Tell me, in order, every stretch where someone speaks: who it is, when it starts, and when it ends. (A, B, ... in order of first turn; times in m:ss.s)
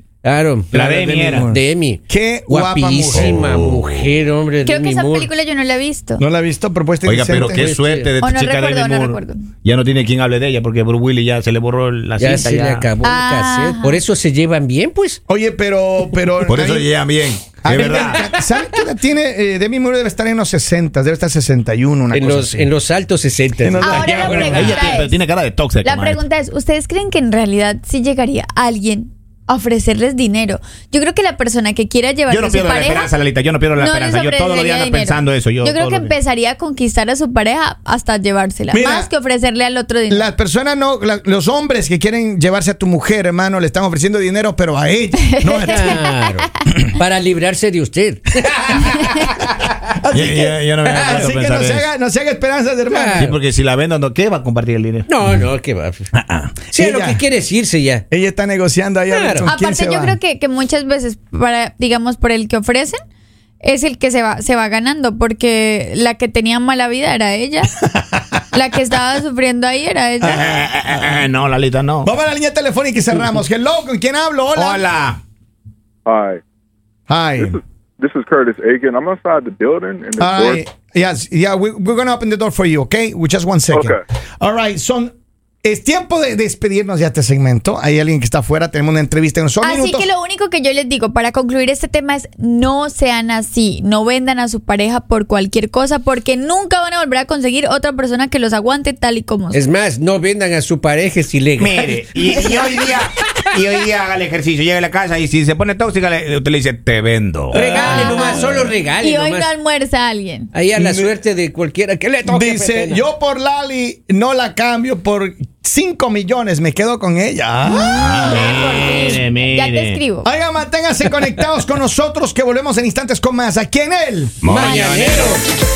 0:00.2-0:00.8 A
0:00.7-0:01.5 B
0:00.7-0:03.3 C
0:01.4-0:05.3 A
0:03.1-0:04.0 B
0:04.6-0:06.2 D
0:06.2-0:07.6 C
0:07.0-0:12.8 B
0:07.5-0:08.1 A
0:08.2-0:09.4 D
0:12.2-0:15.2 A
0:13.0-0:14.0 D
0:15.3-0:16.9 C
0:16.4-0:18.3 B
0:17.6-0:22.7 C
0:17.8-0:18.8 A
0:22.1-0:24.1 A
0:23.6-0:25.0 C
0:23.8-0:25.2 D
0:23.9-0:26.2 B
0:25.8-0:33.1 D
0:32.3-0:36.1 B
0:33.8-0:40.3 D
0:38.7-0:39.1 C
0:40.1-0:46.0 C
0:45.3-0:46.1 D
0:45.6-0:49.4 A
0:50.0-0:53.3 C
0:50.1-0:51.8 B
0:52.9-0:53.4 A
0:53.2-0:55.1 B
0:55.1-0:56.1 A
0:56.1-0:57.2 C
0:56.7-0:58.0 A
0:58.1-1:00.2 C
0:59.1-0:59.5 A
0:59.4-1:03.0 D
1:03.6-1:07.7 D
1:07.9-1:08.4 C
1:08.5-1:10.4 D
1:10.2-1:11.2 C
1:10.2-1:12.1 B
1:12.0-1:14.8 C
1:14.5-1:15.2 B
1:16.0-1:16.4 E
1:17.1-1:17.6 C
1:17.4-1:20.6 E
1:20.2-1:25.1 C
1:25.6-1:30.1 C
1:29.6-1:39.6 D
1:39.5-1:41.9 A
1:41.6-1:47.6 B
1:47.5-1:49.5 A
1:47.6-1:48.7 C
1:47.6-1:50.5 D
1:50.5-1:53.1 A
1:50.7-1:51.2 C
1:52.2-1:58.5 C
1:57.7-2:00.0 B
1:58.1-2:00.3 D
2:00.2-2:04.4 C
2:04.4-2:05.4 B
2:04.4-2:05.4 A